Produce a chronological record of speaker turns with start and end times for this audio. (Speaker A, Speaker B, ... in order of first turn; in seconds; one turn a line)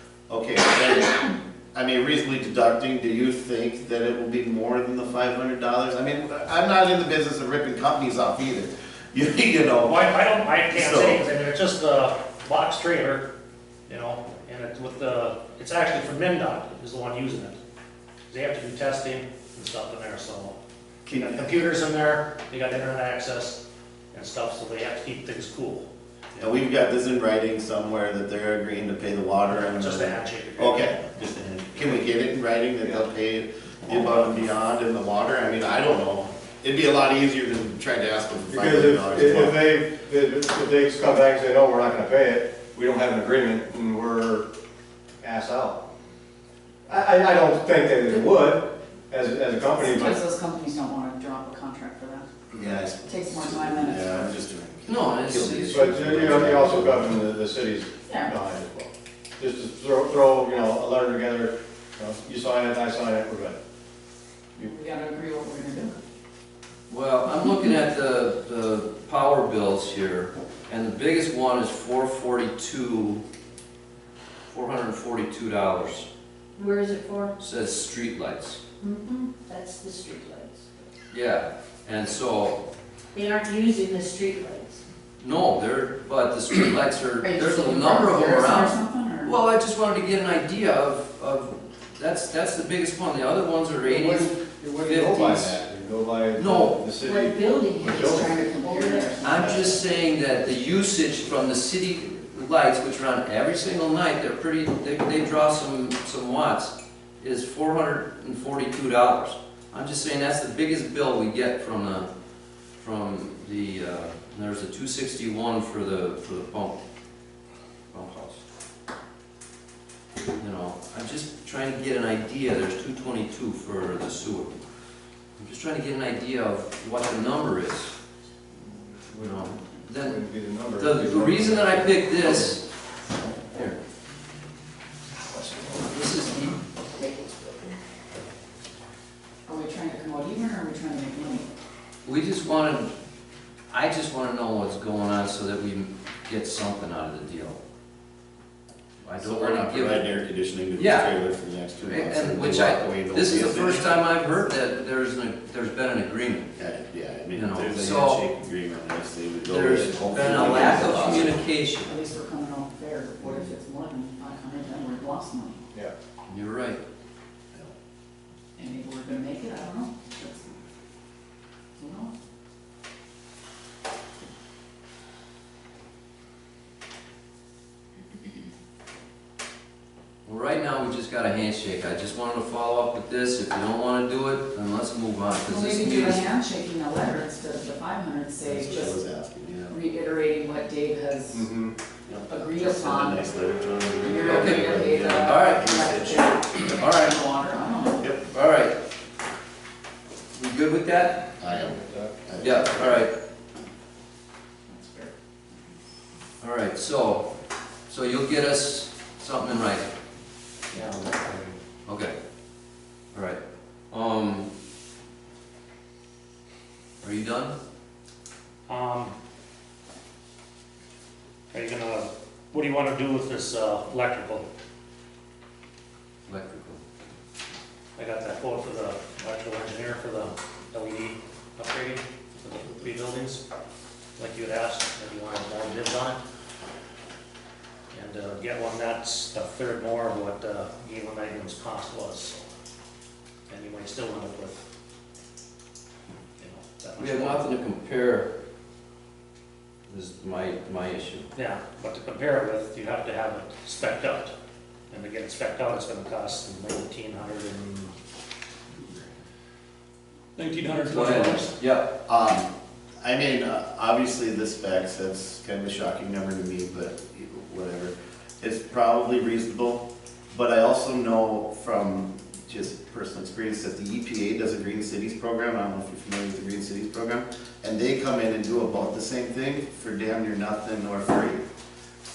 Speaker A: 0.3-9.9
Speaker B: 9.8-13.3
Speaker A: 10.7-11.2
Speaker B: 13.9-17.6
Speaker B: 18.3-20.6
Speaker A: 21.1-21.4
Speaker B: 21.1-23.6
Speaker B: 24.1-25.9
Speaker A: 26.4-39.6
Speaker B: 29.5-31.0
Speaker C: 38.5-44.5
Speaker C: 45.2-45.8
Speaker C: 46.9-50.2
Speaker D: 49.7-52.3
Speaker A: 52.5-57.1
Speaker D: 53.0-54.3
Speaker E: 54.8-56.5
Speaker C: 55.7-63.6
Speaker D: 58.1-58.3
Speaker D: 64.5-65.9
Speaker E: 66.9-73.2
Speaker E: 74.5-76.1
Speaker F: 76.5-77.3
Speaker E: 77.4-78.6
Speaker F: 78.8-80.8
Speaker E: 81.1-82.6
Speaker F: 83.1-84.8
Speaker E: 85.2-95.6
Speaker D: 87.2-89.4
Speaker C: 93.8-98.3
Speaker E: 96.3-96.9
Speaker F: 97.0-99.2
Speaker D: 97.8-99.8
Speaker E: 99.2-112.1
Speaker E: 112.8-116.8
Speaker E: 117.9-118.4
Speaker E: 120.4-124.5
Speaker E: 125.4-127.9
Speaker C: 129.0-132.5
Speaker E: 129.2-130.2
Speaker E: 130.8-132.7
Speaker E: 135.9-136.6
Speaker F: 137.0-137.7
Speaker D: 139.4-141.5
Speaker E: 142.0-142.9
Speaker E: 143.7-147.6
Speaker E: 149.0-150.1
Speaker A: 149.2-153.9
Speaker E: 150.7-151.1
Speaker E: 151.8-156.5
Speaker A: 156.6-161.4
Speaker E: 157.3-158.2
Speaker E: 159.5-161.9
Speaker D: 160.4-161.2
Speaker D: 161.8-165.6
Speaker E: 166.3-166.8
Speaker D: 168.6-170.5
Speaker D: 171.8-172.1
Speaker E: 180.2-186.3
Speaker D: 185.5-189.0
Speaker A: 188.4-189.8
Speaker D: 189.7-191.4
Speaker C: 191.3-191.7
Speaker A: 192.1-196.4
Speaker D: 192.2-193.2
Speaker D: 194.0-198.1
Speaker E: 194.2-195.6
Speaker E: 196.7-197.2
Speaker E: 198.3-198.8
Speaker E: 200.3-201.2
Speaker A: 201.4-203.0
Speaker C: 201.5-202.1
Speaker E: 202.4-203.1
Speaker D: 204.7-205.6
Speaker E: 206.4-207.3
Speaker E: 207.9-209.9
Speaker B: 210.7-211.1
Speaker E: 211.3-212.1
Speaker E: 213.1-214.5
Speaker E: 217.0-217.6
Speaker B: 218.7-219.2
Speaker B: 221.5-224.5
Speaker E: 226.2-226.8
Speaker B: 227.9-233.4
Speaker B: 234.2-236.2
Speaker B: 237.9-242.4
Speaker B: 243.5-244.6
Speaker B: 246.4-247.5
Speaker E: 247.0-248.3
Speaker E: 249.9-251.3
Speaker B: 251.3-254.3
Speaker B: 254.9-257.9
Speaker B: 260.4-261.5
Speaker E: 260.9-261.9
Speaker A: 262.1-281.5